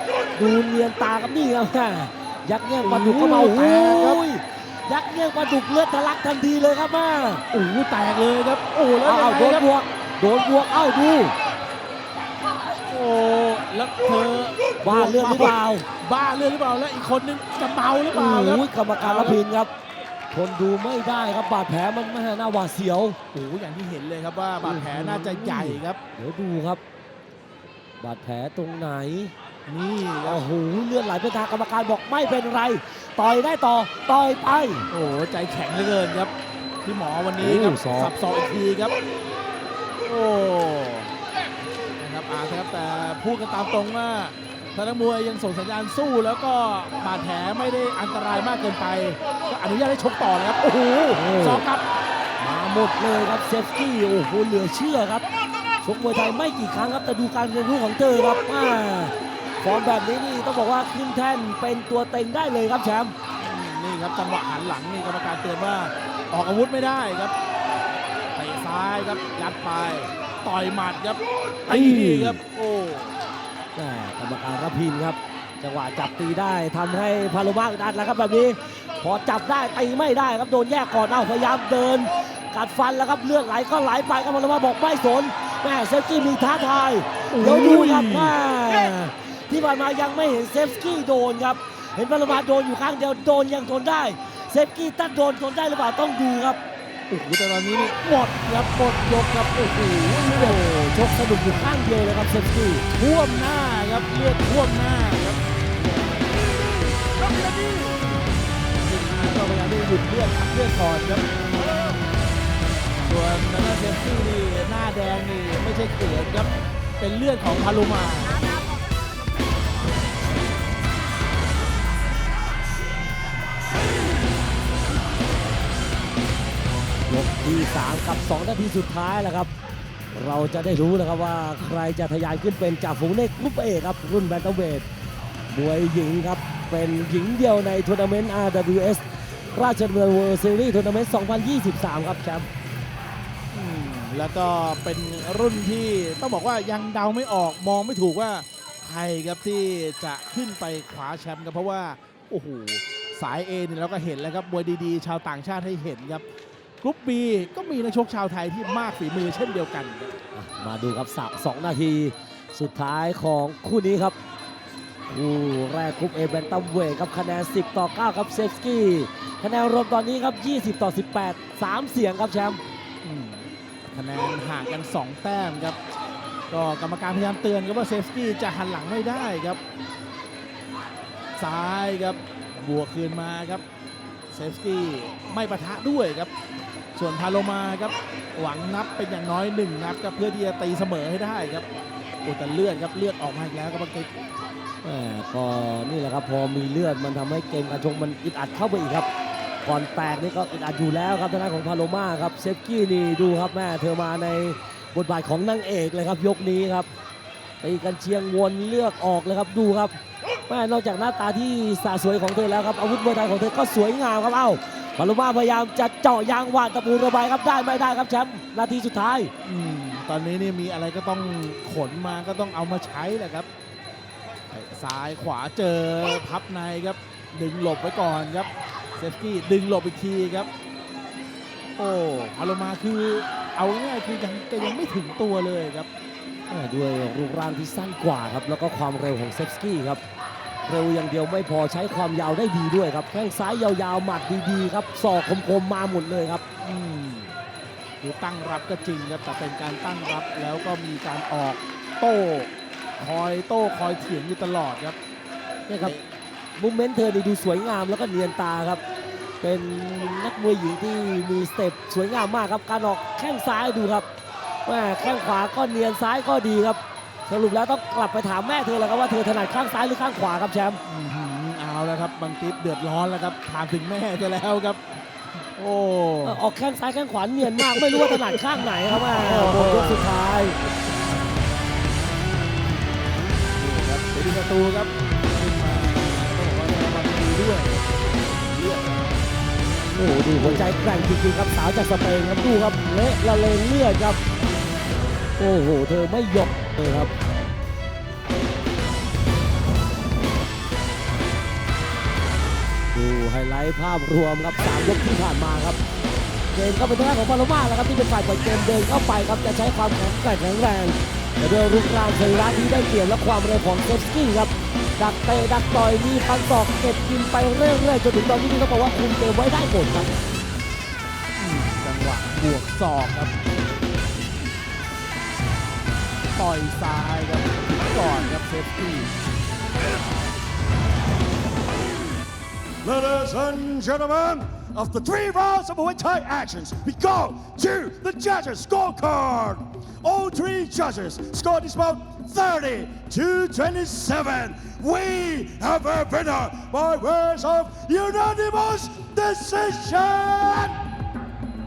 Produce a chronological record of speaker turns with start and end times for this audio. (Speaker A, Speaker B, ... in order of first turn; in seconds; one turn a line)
Speaker A: 0.4-7.4
Speaker B: 2.8-4.2
Speaker B: 7.5-9.7
Speaker A: 9.0-11.3
Speaker B: 12.9-19.4
Speaker A: 14.8-15.9
Speaker A: 18.1-19.7
Speaker A: 20.3-23.2
Speaker B: 23.3-26.0
Speaker A: 24.6-26.8
Speaker A: 28.0-29.3
Speaker B: 29.7-30.4
Speaker A: 30.2-34.9
Speaker B: 34.9-36.3
Speaker B: 36.8-39.0
Speaker A: 37.4-38.1
Speaker B: 40.0-41.1
Speaker B: 42.0-51.9
Speaker A: 51.1-51.6
Speaker A: 52.4-55.2
Speaker A: 55.8-63.1
Speaker B: 63.4-67.3
Speaker B: 68.4-73.2
Speaker A: 71.7-72.4
Speaker A: 73.8-96.6
Speaker B: 87.3-88.3
Speaker B: 97.1-100.7
Speaker A: 100.3-102.9
Speaker B: 102.9-105.4
Speaker B: 108.7-111.2
Speaker B: 113.0-118.5
Speaker A: 127.1-129.5
Speaker A: 130.1-134.9
Speaker A: 135.5-142.5
Speaker B: 143.5-156.2
Speaker B: 156.8-160.2
Speaker A: 160.3-164.2
Speaker A: 165.1-172.6
Speaker B: 173.0-175.8
Speaker B: 176.5-179.6
Speaker B: 181.4-183.6
Speaker B: 184.3-186.3
Speaker B: 187.0-191.7
Speaker B: 192.2-194.1
Speaker A: 194.8-199.1
Speaker A: 199.6-206.9
Speaker A: 207.6-219.3
Speaker B: 219.4-223.5
Speaker B: 224.5-230.5
Speaker B: 231.8-235.9
Speaker A: 236.5-240.0
Speaker A: 240.7-246.4
Speaker B: 246.6-247.3
Speaker B: 248.0-255.0
Speaker A: 255.7-256.0
Speaker A: 256.6-258.8
Speaker A: 259.4-264.1
Speaker A: 264.6-270.8
Speaker B: 270.9-274.8
Speaker B: 275.6-276.4
Speaker A: 276.2-280.6
Speaker B: 277.4-280.1
Speaker B: 283.6-289.2
Speaker A: 289.9-294.2
Speaker B: 290.4-290.8
Speaker A: 295.4-297.1
Speaker A: 302.9-305.8
Speaker A: 306.5-320.1
Speaker B: 321.4-323.3
Speaker B: 326.4-329.1
Speaker C: 332.8-350.8